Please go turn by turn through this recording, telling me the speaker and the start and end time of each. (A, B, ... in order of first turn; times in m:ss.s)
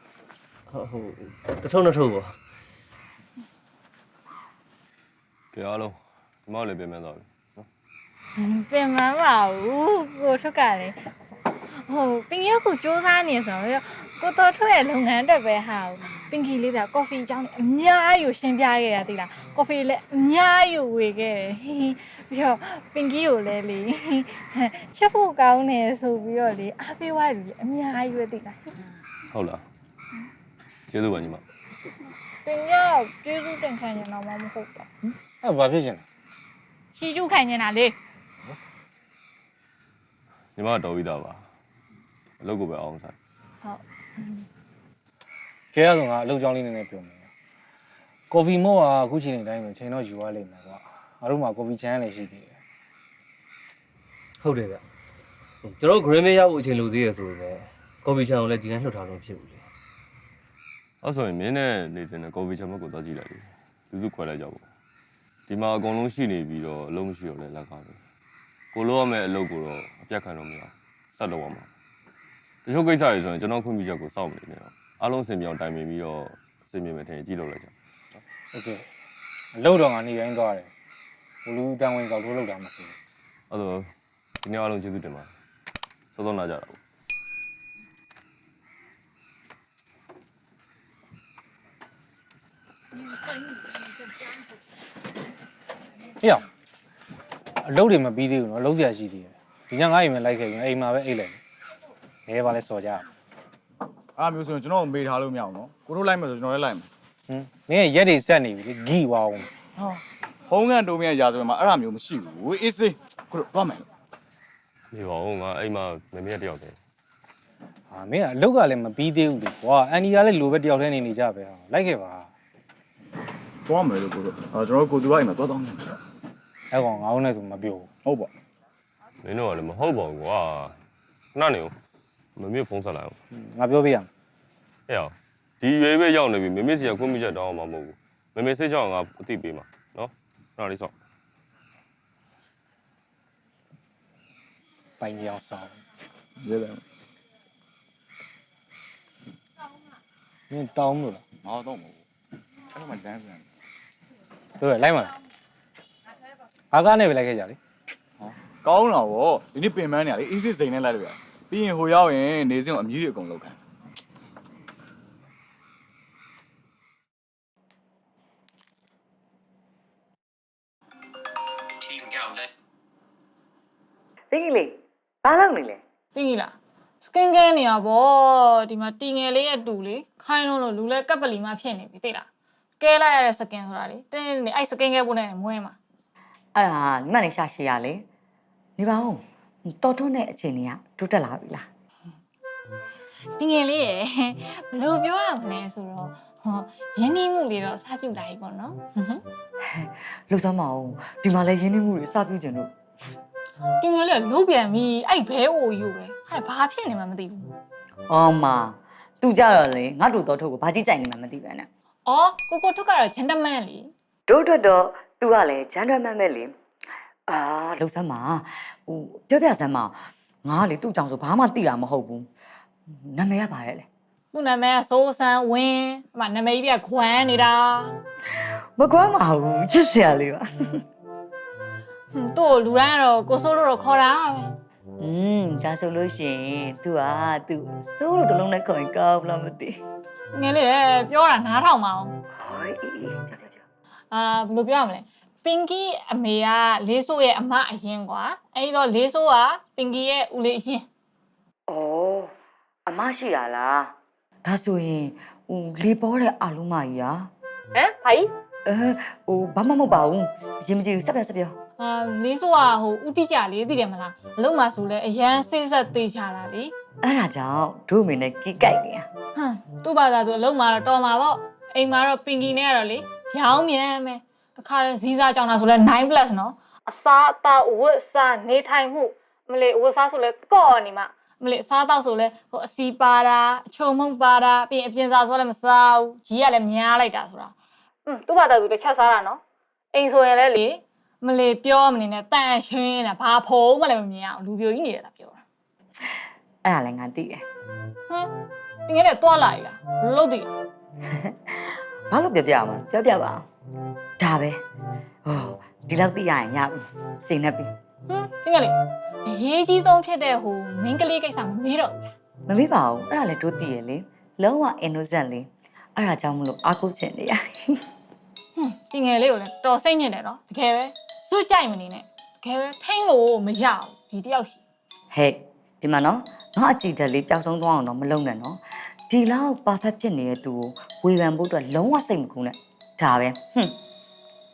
0:00.7-0:02.4 A
0:05.5-0:07.6 B
0:08.4-0:11.0 C
0:11.7-0:28.7 C
0:29.3-0:29.6 B
0:30.9-0:31.4 B
0:32.4-0:34.9 C
0:35.0-0:36.0 D
0:36.9-0:37.9 C
0:40.6-0:41.4 B
0:42.4-0:43.1 B
0:43.6-0:44.4 C
0:45.7-0:47.2 D
0:48.3-0:52.5 D
0:54.4-0:54.8 A
0:55.6-0:59.6 A
1:01.0-1:04.6 B
1:05.5-1:08.0 B
1:08.7-1:11.7 B
1:12.6-1:17.7 B
1:18.5-1:18.8 D
1:19.5-1:20.7 D
1:21.4-1:22.9 D
1:23.5-1:23.9 B
1:24.4-1:25.3 B
1:26.1-1:26.8 B
1:37.6-1:41.4 D
1:42.3-1:43.0 D
1:44.2-1:46.9 E
1:47.3-1:49.5 D
1:49.8-1:53.8 E
1:54.9-1:56.8 B
1:57.9-2:02.3 D
2:03.7-2:06.0 E
2:06.7-2:07.9 D
2:08.0-2:08.3 E
2:09.2-2:10.7 B
2:11.3-2:11.7 B
2:12.4-2:13.2 B
2:13.3-2:14.1 D
2:14.9-2:20.9 B
2:25.0-2:25.7 D
2:26.4-2:26.8 E
2:30.5-2:31.2 D
2:31.4-2:32.0 E
2:32.7-2:33.4 E
2:34.6-2:35.2 D
2:36.7-2:37.6 D
2:38.2-2:43.6 E
2:54.3-2:55.8 F
2:56.1-3:02.2 C
3:02.8-3:05.8 C
3:06.5-3:08.0 F
3:08.8-3:11.6 F
3:13.4-3:19.2 C
3:19.7-3:22.7 F
3:23.8-3:27.5 C
3:28.1-3:31.7 F
3:32.0-3:33.9 C
3:34.3-3:36.5 F
3:37.3-3:42.3 F
3:42.9-3:43.9 F
3:44.3-3:48.0 C
3:48.3-3:50.8 F
3:52.1-3:54.5 C
3:55.0-3:59.8 F
4:00.3-4:02.1 C
4:02.4-4:03.6 F
4:04.1-4:10.8 C
4:11.7-4:12.3 F
4:12.9-4:13.9 F
4:14.4-4:17.3 F
4:17.7-4:18.3 C
4:18.6-4:21.5 F
4:21.8-4:26.7 C
4:27.0-4:29.1 F
4:29.3-4:47.5 C
4:48.1-4:49.4 C
4:49.9-4:55.4 C
4:56.6-4:57.4 F
4:58.9-5:00.5 C
5:01.1-5:03.4 F
5:04.2-5:04.6 F
5:05.2-5:07.7 F
5:08.1-5:12.1 C
5:12.5-5:17.8 F
5:18.6-5:24.6 C
5:25.1-5:33.7 F